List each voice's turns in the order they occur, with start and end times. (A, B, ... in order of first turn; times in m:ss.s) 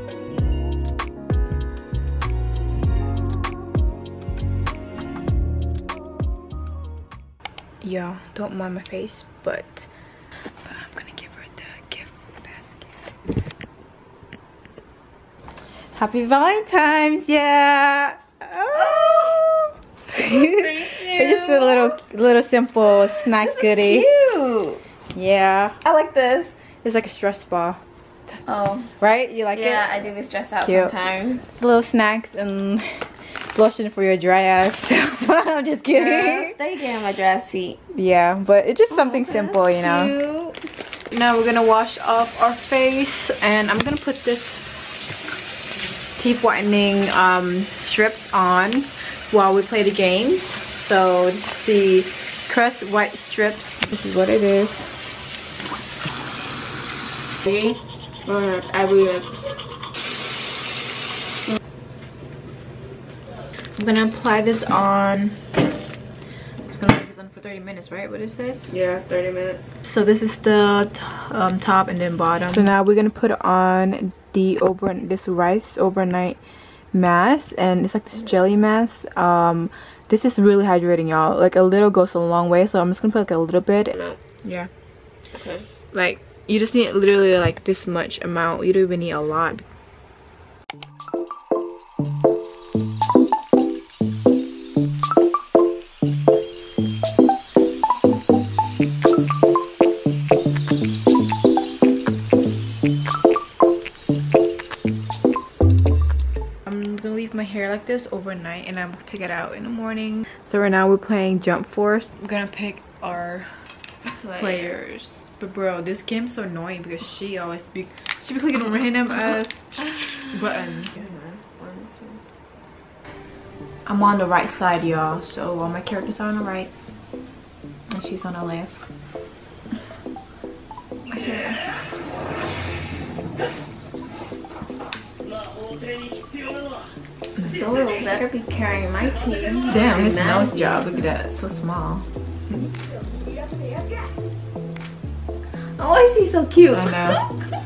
0:07.8-0:09.9 A
0:10.6-0:13.2 A
0:15.9-0:24.1 A
0:18.7-0:19.5 B
0:20.1-0:22.0 B
0:23.2-0:24.8 B
0:25.1-0:25.8 A
0:25.8-0:26.6 B
0:26.8-0:28.4 A
0:28.4-0:28.9 B
0:29.0-0:30.0 A
0:29.5-0:31.5 B
0:30.6-0:30.9 A
0:31.5-0:36.6 A
0:35.9-0:37.8 B
0:37.9-0:40.1 A
0:38.9-0:40.6 B
0:41.1-0:44.6 A
0:46.2-0:54.9 A
0:58.2-0:59.4 B
1:03.8-1:05.4 A
1:06.7-1:08.7 A
1:08.7-1:09.7 B
1:09.8-1:16.4 A
1:16.9-1:24.7 A
1:25.3-1:25.7 B
1:25.9-1:29.6 A
1:46.6-1:53.6 A
1:54.0-1:54.7 B
1:54.4-2:00.9 A
2:00.2-2:02.2 B
2:03.8-2:06.7 A
2:07.9-2:08.9 A
2:11.1-2:11.6 B
2:17.4-2:21.1 B
2:19.7-2:22.6 A
2:25.8-2:27.3 B
2:26.7-2:27.2 A